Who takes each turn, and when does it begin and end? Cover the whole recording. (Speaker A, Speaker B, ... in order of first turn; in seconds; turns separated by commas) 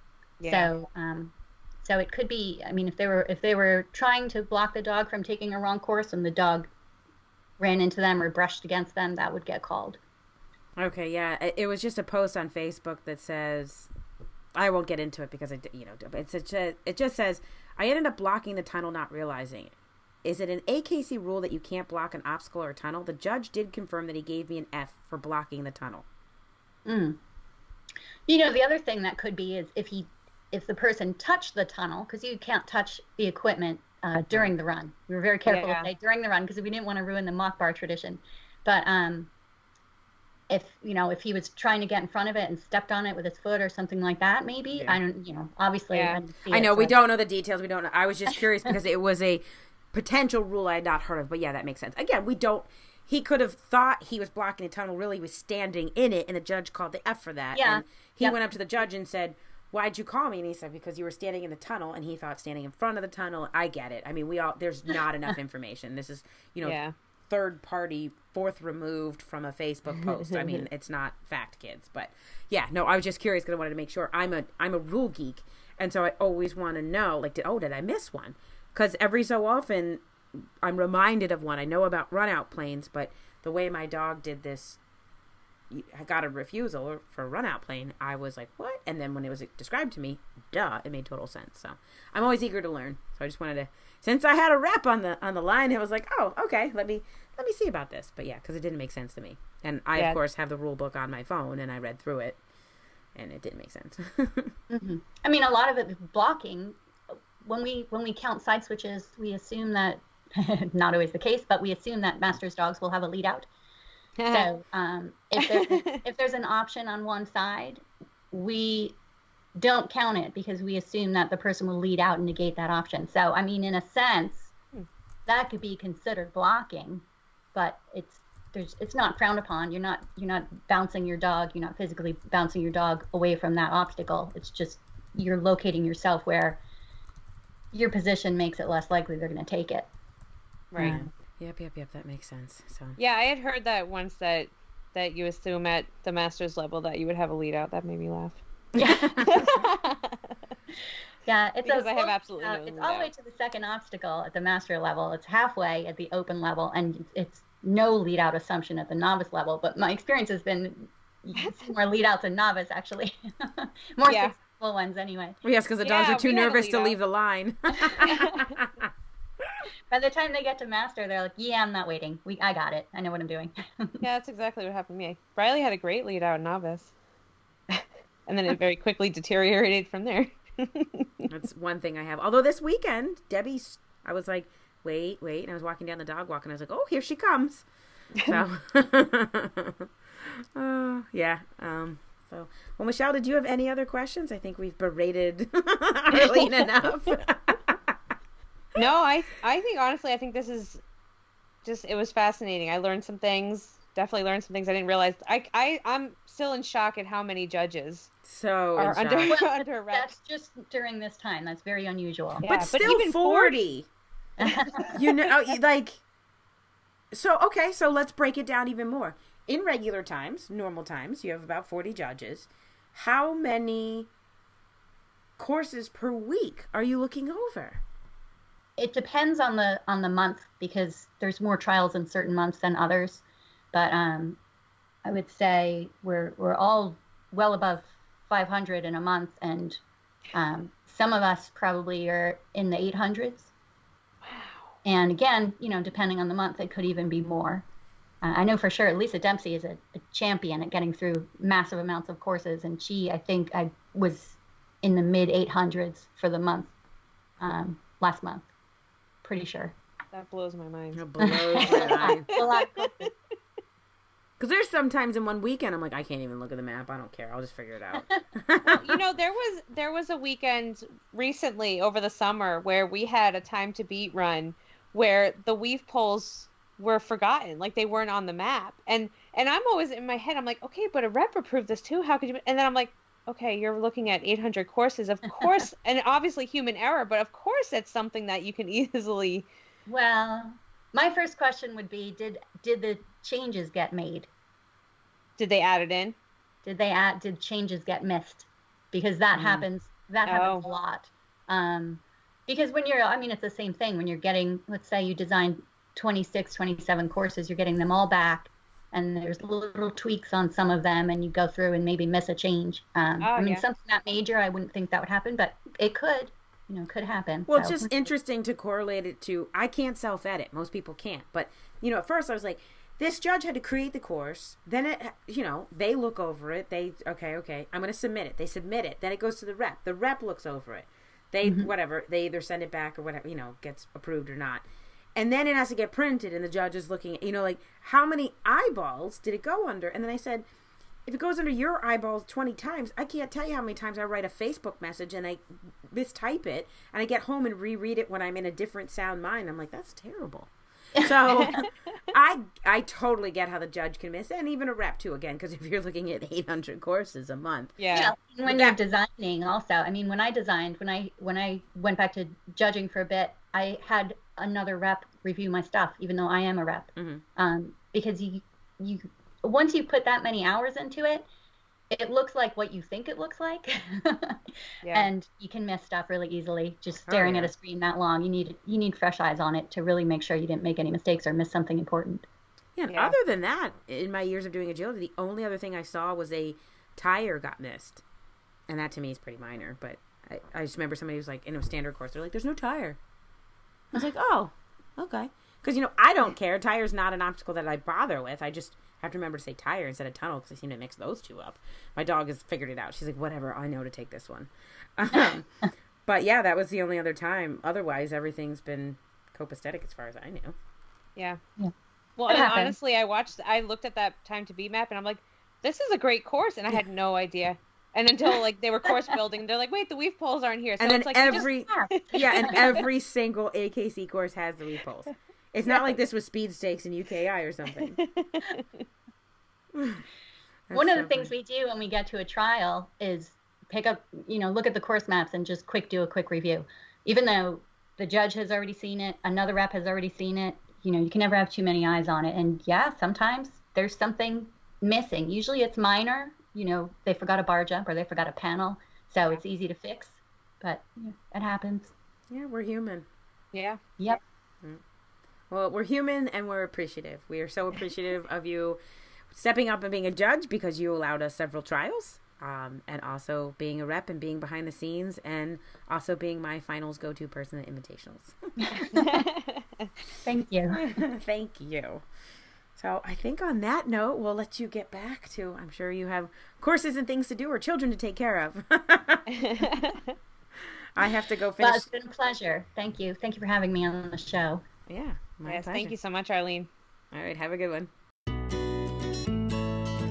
Speaker A: 0.4-0.7, Speaker B: 0.4-6.7, Speaker B: 7.6-10.0, Speaker C: 10.8-13.9, Speaker C: 14.6-26.1, Speaker B: 26.9-27.2, Speaker B: 28.3-39.3, Speaker A: 35.5-35.9, Speaker B: 40.5-46.9, Speaker C: 44.7-45.0, Speaker A: 45.9-46.2, Speaker C: 46.5-84.8, Speaker B: 57.5-58.4, Speaker A: 66.6-66.9, Speaker A: 70.3-70.6, Speaker C: 85.7-102.4, Speaker C: 103.1-104.5, Speaker B: 104.7-106.8, Speaker B: 107.4-113.5, Speaker A: 114.2-114.5, Speaker B: 114.3-119.0, Speaker A: 115.4-116.0, Speaker B: 119.6-124.5, Speaker B: 125.3-136.6, Speaker B: 137.7-139.9, Speaker A: 140.7-141.0, Speaker C: 140.8-143.0, Speaker B: 140.8-141.1, Speaker A: 143.0-148.4, Speaker B: 148.8-149.6, Speaker A: 149.2-150.3, Speaker B: 151.2-165.4, Speaker A: 151.6-153.1, Speaker A: 161.4-161.7, Speaker A: 164.1-164.3, Speaker C: 165.4-168.9, Speaker A: 165.8-167.0, Speaker B: 167.8-168.4, Speaker B: 169.9-174.0, Speaker A: 174.0-176.9, Speaker A: 177.7-181.3, Speaker C: 181.3-187.6, Speaker C: 188.2-189.8, Speaker C: 190.6-197.9, Speaker A: 196.1-196.5, Speaker A: 198.8-200.8, Speaker A: 201.6-208.1, Speaker C: 208.2-209.4, Speaker A: 208.8-210.1, Speaker B: 209.3-212.4, Speaker A: 212.4-213.6, Speaker C: 212.5-213.9, Speaker B: 214.4-215.0, Speaker C: 214.9-216.0, Speaker C: 217.1-224.1, Speaker C: 225.4-227.8, Speaker B: 228.8-234.4, Speaker B: 235.0-239.8, Speaker B: 240.3-243.5, Speaker A: 244.2-244.7, Speaker B: 244.8-247.6, Speaker B: 248.2-256.7, Speaker B: 257.4-258.5, Speaker B: 259.2-259.7, Speaker A: 260.1-263.1, Speaker C: 260.9-262.3, Speaker B: 261.2-263.1, Speaker C: 264.4-268.9, Speaker B: 267.9-268.2, Speaker A: 268.7-289.5, Speaker B: 289.9-294.3, Speaker A: 295.4-296.1, Speaker B: 296.6-318.1, Speaker A: 300.2-300.6, Speaker A: 313.2-313.6, Speaker C: 317.5-334.6, Speaker B: 331.4-331.7, Speaker C: 335.1-340.4, Speaker C: 341.1-357.8, Speaker A: 351.4-351.7, Speaker A: 357.8-358.1, Speaker B: 357.9-371.2, Speaker C: 358.4-358.8, Speaker C: 366.9-367.2, Speaker B: 371.9-374.4, Speaker A: 374.8-375.1, Speaker B: 374.9-382.2, Speaker C: 377.1-377.5, Speaker C: 382.8-388.0, Speaker A: 382.9-383.1, Speaker C: 388.7-393.0, Speaker C: 393.9-405.5, Speaker C: 406.1-410.5, Speaker A: 412.2-422.8, Speaker B: 412.3-412.7, Speaker B: 418.2-419.2, Speaker C: 420.8-428.0, Speaker B: 421.3-422.8, Speaker A: 427.9-428.6, Speaker C: 429.7-430.0, Speaker C: 430.7-431.3, Speaker B: 430.7-451.9, Speaker C: 452.3-453.1, Speaker A: 453.5-453.8, Speaker C: 455.5-458.8, Speaker C: 459.3-468.4, Speaker B: 468.6-469.2, Speaker A: 469.0-469.9, Speaker B: 470.2-470.8, Speaker C: 470.7-472.0, Speaker C: 472.8-479.3, Speaker A: 479.3-480.1, Speaker C: 480.9-481.9, Speaker B: 481.6-484.6, Speaker C: 484.9-485.9, Speaker A: 485.5-486.7, Speaker C: 487.1-487.9